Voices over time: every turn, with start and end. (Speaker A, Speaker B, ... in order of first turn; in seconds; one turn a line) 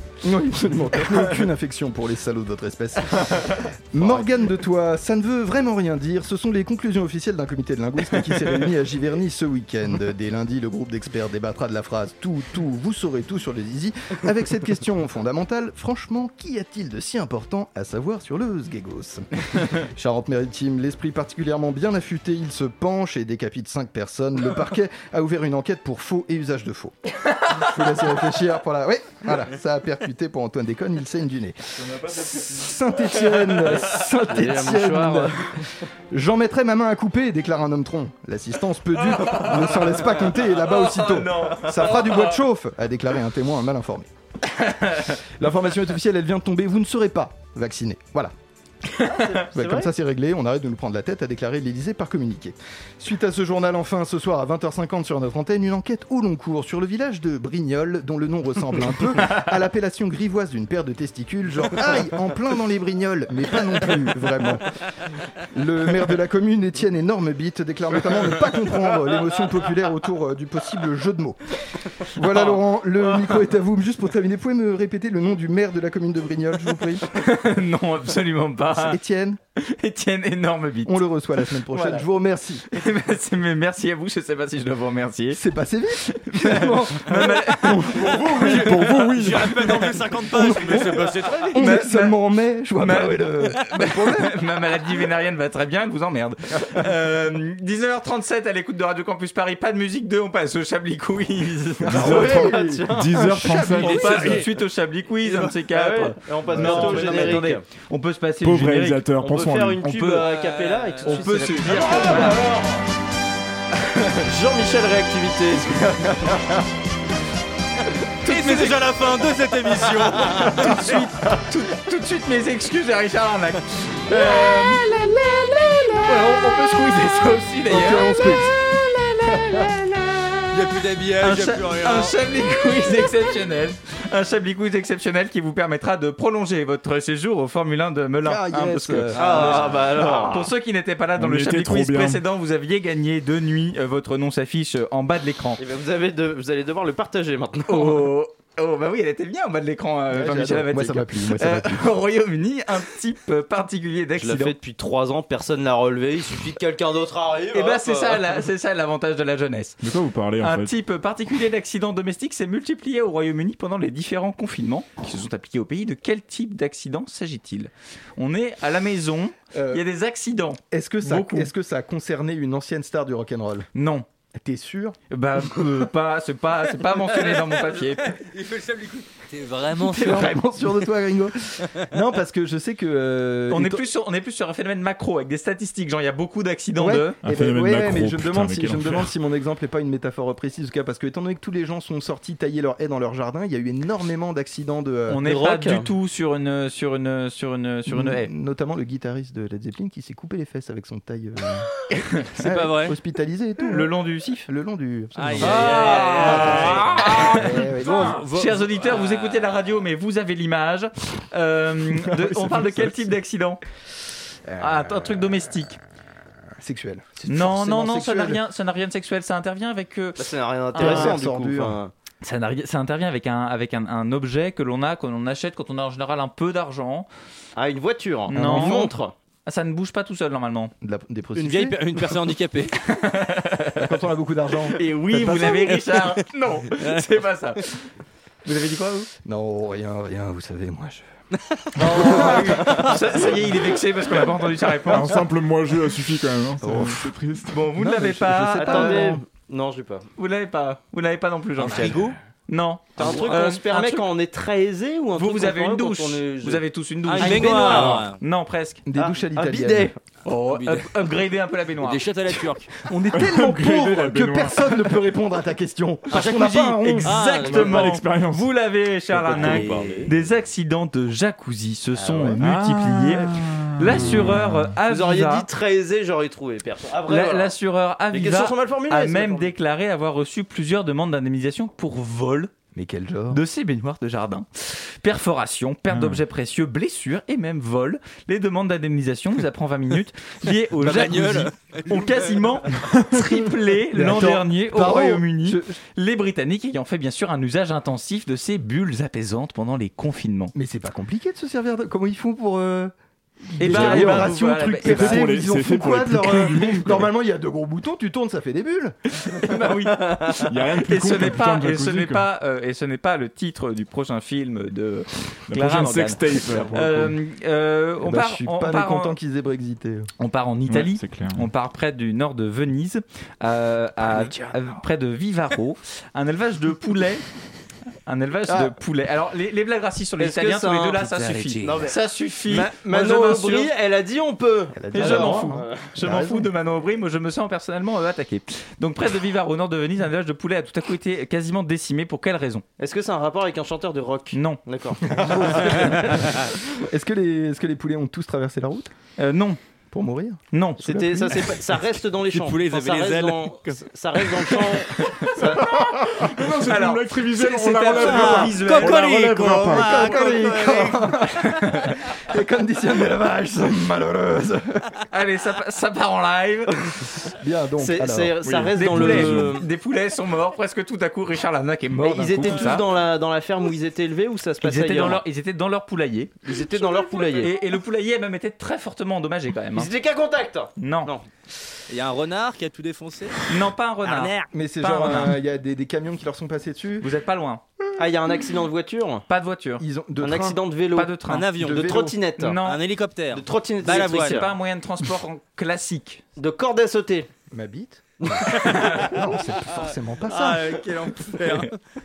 Speaker A: 0.2-26.9
Speaker A: 27.5-44.1
Speaker B: 31.9-32.5
Speaker C: 34.3-35.6
Speaker D: 39.0-42.4
Speaker D: 44.6-45.2
Speaker A: 45.2-48.3
Speaker C: 49.0-49.9
Speaker A: 49.5-64.8
Speaker D: 59.2-59.5
Speaker A: 65.5-77.1
Speaker D: 72.3-73.4
Speaker D: 77.1-79.0
Speaker A: 78.7-79.4
Speaker D: 79.6-82.1
Speaker A: 80.8-82.6
Speaker D: 82.7-85.4
Speaker A: 85.3-94.4
Speaker D: 86.1-88.1
Speaker D: 91.5-92.2
Speaker D: 92.8-102.3
Speaker A: 101.8-104.4
Speaker B: 101.9-104.3
Speaker C: 102.0-103.4
Speaker D: 103.7-109.1
Speaker C: 105.7-107.7
Speaker B: 106.6-106.9
Speaker A: 107.0-107.4
Speaker B: 108.4-110.2
Speaker C: 109.2-112.4
Speaker D: 109.8-110.2
Speaker D: 111.0-112.5
Speaker C: 114.2-116.4
Speaker D: 118.2-118.8
Speaker D: 120.2-125.3
Speaker D: 125.8-130.4
Speaker A: 127.7-128.5
Speaker A: 129.3-129.6
Speaker D: 131.2-145.6
Speaker A: 138.2-139.6
Speaker C: 139.2-140.5
Speaker B: 141.2-142.2
Speaker C: 145.6-148.1
Speaker D: 147.7-154.6
Speaker A: 150.1-152.0
Speaker C: 154.2-158.2
Speaker D: 157.5-159.8
Speaker B: 159.8-160.7
Speaker D: 160.4-171.5
Speaker A: 169.5-169.8
Speaker A: 170.7-173.7
Speaker D: 173.8-174.1
Speaker A: 174.3-175.0
Speaker D: 175.1-178.2
Speaker A: 179.7-183.9
Speaker D: 183.5-187.2
Speaker A: 186.8-195.2
Speaker B: 187.2-189.1
Speaker D: 195.1-198.3
Speaker C: 195.2-195.9
Speaker A: 197.9-201.7
Speaker A: 202.4-208.2
Speaker D: 203.7-204.5
Speaker D: 205.4-213.6
Speaker E: 205.7-206.1
Speaker A: 212.1-213.1
Speaker A: 214.5-215.4
Speaker D: 214.6-215.8
Speaker A: 216.6-218.4
Speaker D: 217.3-221.2
Speaker C: 220.2-221.9
Speaker A: 220.8-221.8
Speaker D: 222.2-227.1
Speaker C: 227.6-229.1
Speaker D: 228.3-228.9
Speaker A: 228.3-228.9
Speaker D: 229.5-230.7
Speaker A: 230.8-231.8
Speaker D: 232.8-233.9
Speaker A: 233.8-234.8
Speaker D: 234.7-237.9
Speaker D: 238.4-239.1
Speaker A: 239.2-241.1
Speaker D: 241.8-245.2
Speaker A: 241.8-242.8
Speaker B: 244.8-247.7
Speaker A: 246.6-247.0
Speaker D: 247.5-249.2
Speaker A: 247.8-249.2
Speaker C: 248.6-250.1
Speaker D: 250.2-254.1
Speaker C: 251.6-252.1
Speaker E: 251.8-252.1
Speaker C: 253.0-256.6
Speaker D: 255.2-258.8
Speaker E: 257.1-258.1
Speaker C: 257.2-258.0
Speaker A: 258.9-259.9
Speaker C: 259.0-260.0
Speaker D: 260.2-262.1
Speaker E: 261.9-262.7
Speaker A: 262.9-267.2
Speaker B: 263.1-265.0
Speaker E: 266.2-266.6
Speaker D: 266.8-275.5
Speaker E: 267.1-267.7
Speaker B: 267.3-268.6
Speaker B: 269.1-269.8
Speaker C: 269.3-270.1
Speaker E: 269.5-270.0
Speaker B: 272.3-274.8
Speaker C: 274.9-277.6
Speaker D: 277.1-282.5
Speaker C: 278.1-279.5
Speaker A: 282.7-283.4
Speaker D: 283.3-300.5
Speaker B: 285.9-286.2
Speaker E: 290.8-292.0
Speaker A: 293.9-295.8
Speaker A: 300.5-302.9
Speaker A: 303.5-309.6
Speaker D: 303.6-305.3
Speaker B: 303.6-307.1
Speaker D: 309.2-319.2
Speaker B: 310.3-312.3
Speaker B: 315.5-317.2
Speaker A: 318.0-320.1
Speaker D: 320.2-327.2
Speaker B: 320.7-321.5
Speaker D: 328.1-333.7
Speaker C: 330.2-332.0
Speaker C: 332.5-335.8
Speaker A: 334.7-336.5
Speaker D: 334.9-342.7
Speaker C: 342.8-346.4
Speaker D: 344.3-344.6
Speaker A: 345.1-348.9
Speaker D: 349.2-349.6
Speaker A: 349.9-351.6
Speaker D: 350.5-351.3
Speaker C: 350.8-355.7
Speaker E: 352.3-353.8
Speaker B: 355.6-360.0
Speaker D: 355.6-359.4
Speaker E: 358.0-361.1
Speaker A: 359.7-364.8
Speaker D: 361.2-361.9
Speaker D: 365.1-366.8
Speaker A: 367.4-368.4
Speaker C: 367.8-369.6
Speaker B: 368.4-369.5
Speaker D: 368.7-372.9
Speaker C: 372.0-375.2
Speaker D: 374.6-376.5
Speaker C: 376.5-377.5
Speaker D: 377.4-379.9
Speaker C: 379.7-381.3
Speaker D: 380.8-381.1
Speaker E: 381.9-383.4
Speaker D: 383.5-385.4
Speaker E: 384.1-384.5
Speaker A: 384.5-387.1
Speaker D: 387.0-387.6
Speaker C: 388.0-389.3
Speaker D: 389.3-389.8
Speaker A: 389.8-390.6
Speaker C: 390.2-392.6
Speaker D: 390.9-391.5
Speaker E: 391.3-391.9
Speaker A: 391.6-392.2
Speaker D: 392.4-392.9
Speaker E: 392.6-394.4
Speaker C: 393.3-394.5
Speaker D: 394.1-396.2
Speaker C: 396.4-397.3
Speaker A: 397.5-400.7
Speaker D: 398.8-399.1
Speaker E: 400.3-401.7